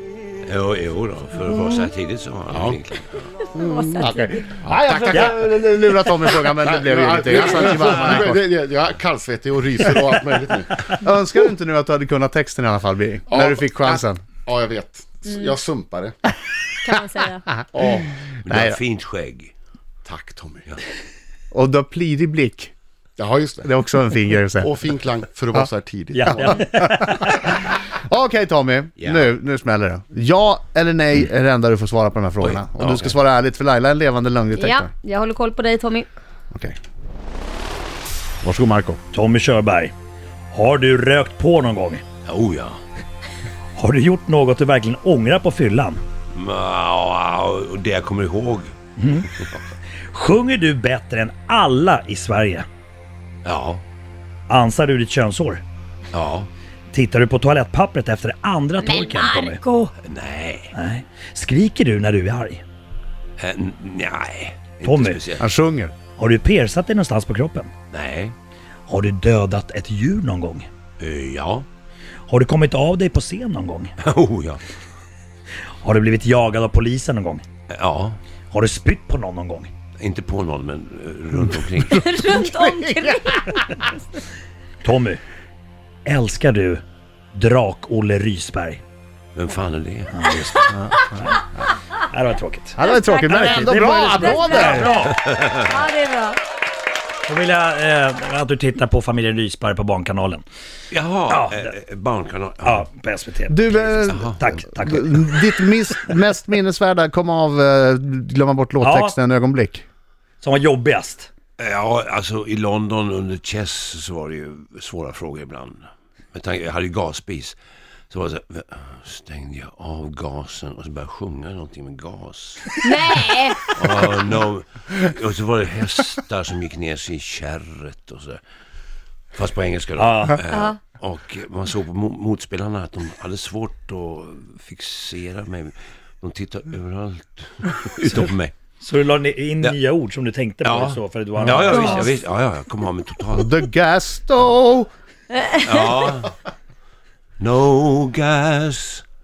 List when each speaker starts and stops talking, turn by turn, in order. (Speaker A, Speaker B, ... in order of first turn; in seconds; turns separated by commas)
Speaker A: 0.5-3.3, Speaker B: 2.5-2.8, Speaker C: 3.5-4.5, Speaker B: 3.5-5.5, Speaker D: 4.0-8.4, Speaker B: 6.1-10.9, Speaker D: 10.9-14.2, Speaker B: 13.3-16.1, Speaker C: 15.3-15.5, Speaker C: 16.8-17.5, Speaker D: 17.6-18.8, Speaker B: 17.8-18.1, Speaker A: 18.5-19.5, Speaker B: 20.1-20.7, Speaker D: 21.5-22.7, Speaker B: 23.2-23.7, Speaker D: 23.6-24.7, Speaker B: 24.6-26.7, Speaker E: 26.1-27.5, Speaker D: 27.0-34.9, Speaker A: 29.0-29.3, Speaker A: 32.4-33.2, Speaker C: 34.5-36.1, Speaker D: 38.4-39.0, Speaker E: 39.1-39.9, Speaker E: 40.5-42.0, Speaker A: 42.2-42.8, Speaker E: 43.8-46.0, Speaker A: 46.3-49.6, Speaker E: 49.0-49.3, Speaker E: 50.0-52.7, Speaker A: 53.5-53.8, Speaker E: 54.5-55.6, Speaker A: 56.1-56.5, Speaker E: 56.9-59.6, Speaker C: 58.8-59.9, Speaker A: 60.0-60.7, Speaker E: 60.7-62.6, Speaker A: 63.4-65.4, Speaker E: 64.8-65.2, Speaker D: 65.4-65.9, Speaker E: 66.2-67.7, Speaker A: 67.9-68.4, Speaker E: 68.9-70.7, Speaker A: 71.0-71.7, Speaker E: 72.3-73.9, Speaker A: 74.0-74.6, Speaker E: 75.8-77.4, Speaker A: 77.7-78.2, Speaker E: 78.5-79.7, Speaker A: 80.0-82.1, Speaker C: 81.9-84.0, Speaker D: 82.3-83.9, Speaker E: 84.8-85.2, Speaker E: 86.1-86.8, Speaker E: 87.3-88.8, Speaker A: 89.4-90.1, Speaker E: 90.1-91.5, Speaker D: 90.7-91.2, Speaker E: 92.0-95.1, Speaker D: 92.8-95.0, Speaker C: 92.8-96.4, Speaker A: 95.0-95.6, Speaker E: 97.3-100.4, Speaker A: 100.9-102.8, Speaker E: 101.3-101.7, Speaker E: 102.6-105.7, Speaker D: 103.5-109.8, Speaker A: 104.0-104.7, Speaker E: 108.8-109.2, Speaker E: 110.4-111.3, Speaker A: 111.6-117.6, Speaker A: 118.1-123.2, Speaker C: 122.8-123.7, Speaker A: 123.7-128.4, Speaker A: 129.3-138.6, Speaker E: 130.0-130.4, Speaker C: 130.5-130.8, Speaker E: 138.1-142.1, Speaker A: 140.6-143.6, Speaker C: 141.7-142.2, Speaker D: 143.4-144.9, Speaker C: 145.3-145.6, Speaker A: 145.6-146.3, Speaker A: 147.4-149.0